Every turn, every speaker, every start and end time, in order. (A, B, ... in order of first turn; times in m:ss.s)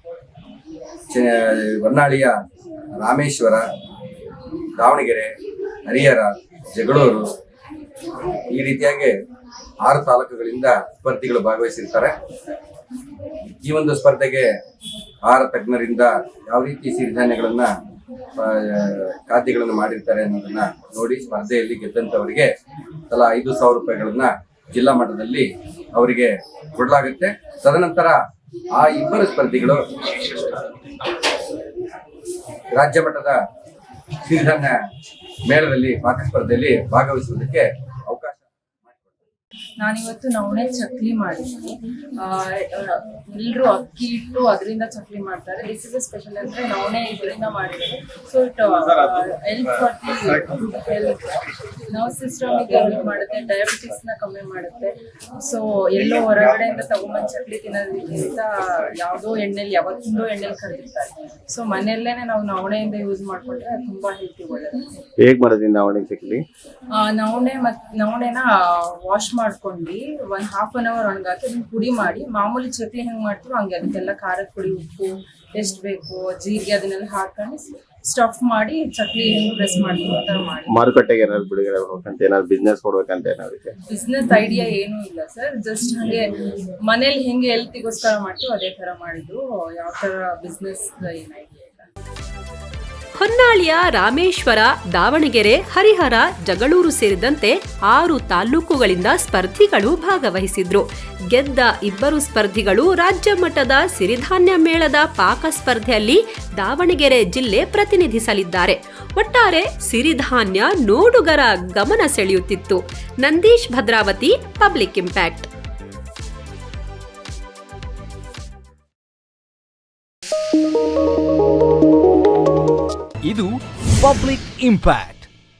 0:01.1-0:02.3 A
0:03.0-0:03.6 A
0:04.8-0:05.3 A
0:05.9-0:07.3 A
0:08.5-0:09.2 A
0:09.8-0:12.2 A
0:13.5-0:14.5 A
0:15.3-0:17.7 A
0:18.4-0:22.5 A
0:23.1-0:28.2 A
0:28.8-0:29.8 A
0:32.7-0:33.4 A
0:34.2-0:34.8 A
0:35.5-0:38.4 A
0:39.8-1:04.9 B
1:05.2-1:06.4 C
1:07.0-1:20.7 B
1:20.7-1:23.8 C
1:23.9-1:26.3 B
1:26.9-1:31.9 B
1:33.2-1:55.5 D
2:03.3-2:05.3 E